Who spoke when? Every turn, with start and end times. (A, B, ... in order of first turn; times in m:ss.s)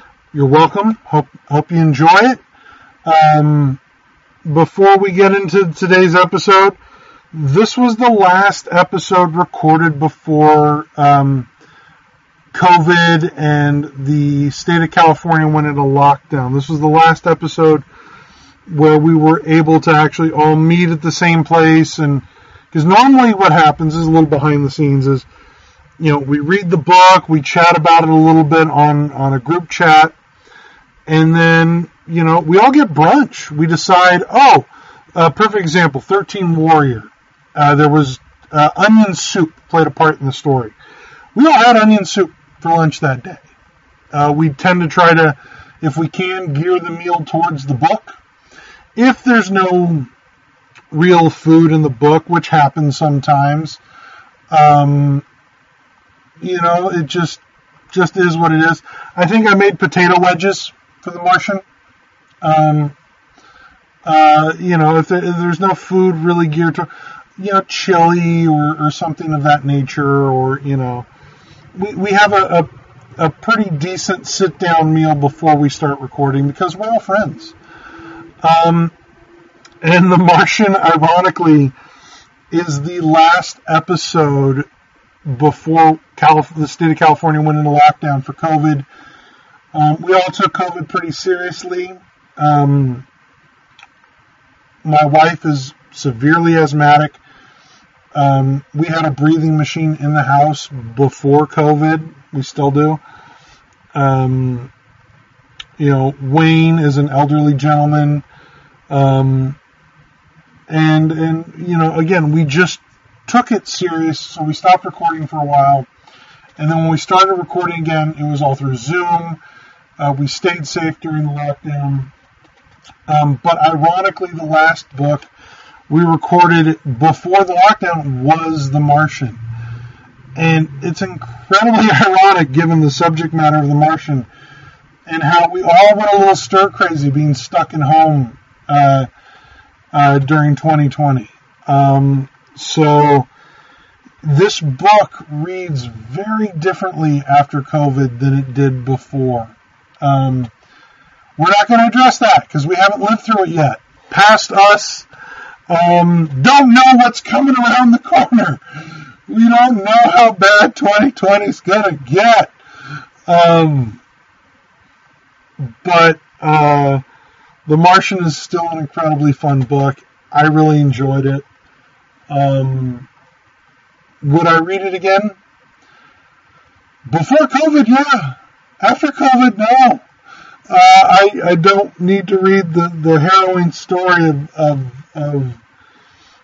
0:00.3-0:02.4 A
0:03.0-0:03.8 A
0:04.4-0:06.8 A
0:07.3-0:11.5 A
0:12.5-0:17.8 A
0:18.7-0:25.3 A
0:26.0-0:30.1 A
0:31.1-0:40.7 A
0:41.3-0:43.4 A
0:44.1-0:48.1 A
0:49.0-0:50.1 A
0:50.9-0:53.8 A
0:54.5-0:55.2 A
0:56.4-0:57.4 A
0:57.9-1:01.6 A
1:02.4-1:02.9 A
1:04.0-1:11.1 A
1:11.7-1:17.5 A
1:18.4-1:18.9 A
1:19.8-1:21.7 A
1:22.5-1:24.7 A
1:25.2-1:28.8 A
1:29.7-1:33.0 A
1:34.8-1:37.2 A
1:38.1-1:43.0 A
1:43.9-1:44.7 A
1:45.8-1:48.2 A
1:48.9-1:49.6 A
1:50.7-1:55.9 A
1:56.6-1:59.4 A
2:00.0-2:02.1 A
2:03.1-2:05.3 A
2:05.9-2:09.4 A
2:10.3-2:14.3 A
2:15.0-2:19.1 A
2:19.9-2:23.3 A
2:24.2-2:30.5 A
2:31.4-2:35.1 A
2:35.7-2:38.6 A
2:39.3-2:42.5 A
2:43.2-2:44.0 A
2:45.6-2:47.0 A
2:47.6-2:51.4 A
2:52.3-2:53.1 A
2:54.2-2:55.3 A
2:57.0-3:00.0 A
3:00.7-3:05.6 A